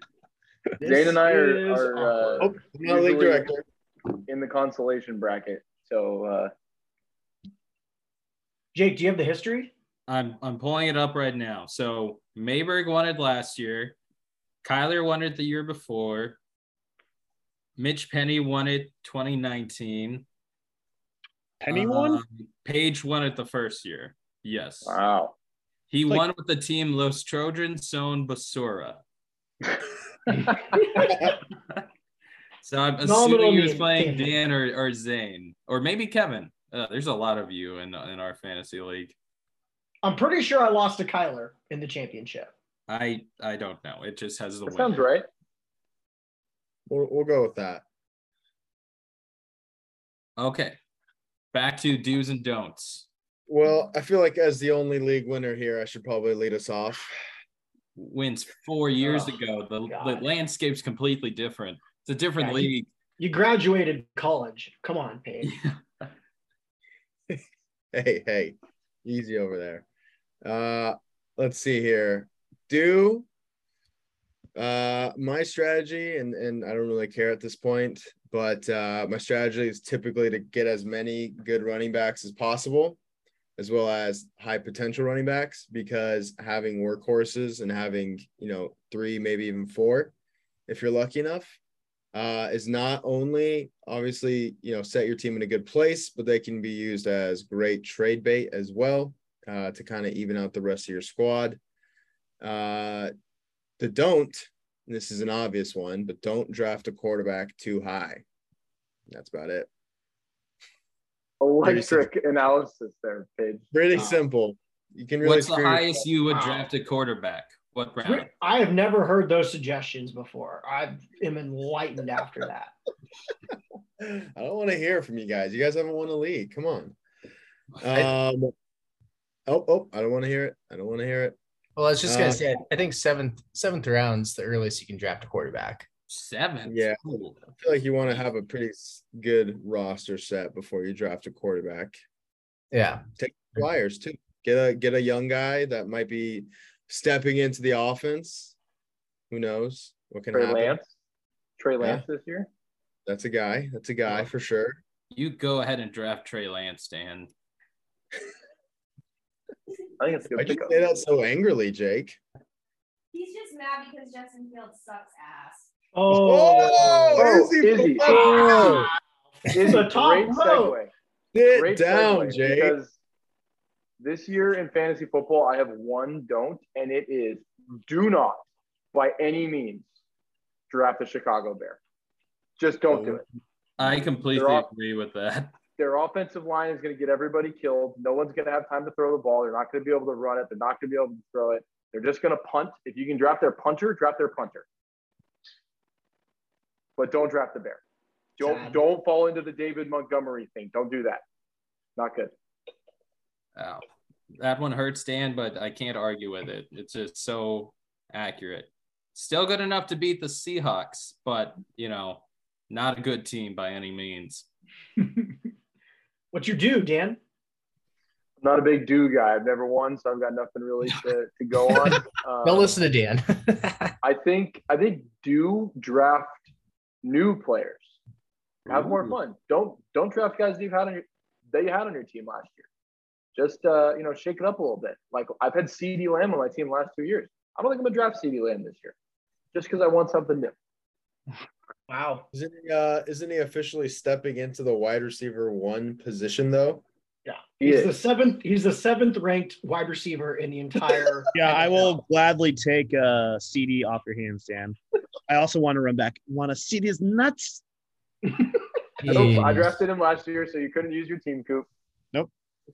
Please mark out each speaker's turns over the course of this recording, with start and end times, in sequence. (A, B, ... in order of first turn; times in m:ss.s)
0:00.8-0:02.5 A
0:00.8-0:03.5 B
0:02.4-0:03.6 C
0:04.3-0:06.5 B
0:08.7-0:09.7 A
0:10.1-0:14.0 D
0:14.6-0:16.4 D
0:17.8-0:20.2 D
0:21.6-0:22.2 E
0:21.7-0:25.0 D
0:24.8-0:25.3 B
0:25.9-0:29.0 D
0:30.7-0:31.2 A
0:32.6-0:39.2 D
0:33.0-0:34.3 A
0:40.0-0:42.5 A
0:42.9-0:45.0 D
0:44.7-0:45.3 B
0:46.9-0:47.8 C
0:50.4-0:50.8 D
0:51.5-0:53.1 D
0:53.5-0:57.2 C
0:58.0-1:02.9 D
0:59.0-0:59.3 A
0:59.9-1:00.2 A
1:02.4-1:05.5 A
1:05.4-1:05.7 D
1:07.9-1:09.8 C
1:10.4-1:13.3 C
1:14.5-1:23.0 C
1:23.6-1:30.1 C
1:30.7-1:31.6 C
1:32.1-1:41.6 C
1:42.4-1:43.1 C
1:43.8-1:48.2 C
1:49.1-1:49.7 C
1:51.4-1:53.6 B
1:51.6-1:52.1 C
1:53.7-1:56.0 C
1:55.2-1:58.3 D
1:56.3-1:56.7 A
1:58.0-2:02.7 A
2:04.0-2:07.0 C
2:07.7-2:08.1 D
2:07.8-2:08.5 C
2:09.5-2:11.4 C
2:11.8-2:15.9 F
2:12.0-2:12.4 C
2:16.1-2:17.4 D
2:16.6-2:22.0 C
2:22.7-2:23.0 F
2:23.2-2:28.5 C
2:29.3-2:30.8 C
2:30.3-2:30.9 B
2:31.6-2:32.5 B
2:33.0-2:34.8 C
2:35.1-2:37.3 D
2:40.0-2:40.9 B
2:40.4-2:42.2 C
2:43.1-2:45.7 G
2:45.9-2:47.3 A
2:46.1-2:48.9 C
2:47.1-2:48.9 B
2:48.0-2:49.0 A
2:49.5-2:50.9 B
2:49.6-2:50.8 A
2:51.3-2:52.8 C
2:51.5-2:52.9 B
2:54.0-2:59.9 B
3:00.7-3:01.8 B
3:02.6-3:03.2 B
3:02.9-3:03.2 C
3:03.8-3:05.6 D
3:03.8-3:04.7 B
3:05.8-3:14.6 B
3:17.0-3:17.8 B
3:18.4-3:21.2 B
3:18.4-3:18.8 A
3:22.0-3:22.3 B
3:23.6-3:23.8 D
3:24.4-3:34.5 D
3:35.0-3:35.4 A
3:36.3-3:37.2 A
3:38.4-3:42.8 B
3:42.4-3:43.9 F
3:44.0-3:46.5 B
3:47.0-3:47.9 B
3:48.7-3:52.6 B
3:48.7-3:49.1 D
3:53.3-3:58.9 B
3:59.5-4:00.5 B
4:01.9-4:02.2 A
4:02.3-4:06.8 C
4:07.2-4:12.0 A
4:07.6-4:07.9 B
4:11.3-4:14.8 E
4:15.3-4:17.6 E
4:19.0-4:19.8 F
4:19.0-4:21.7 B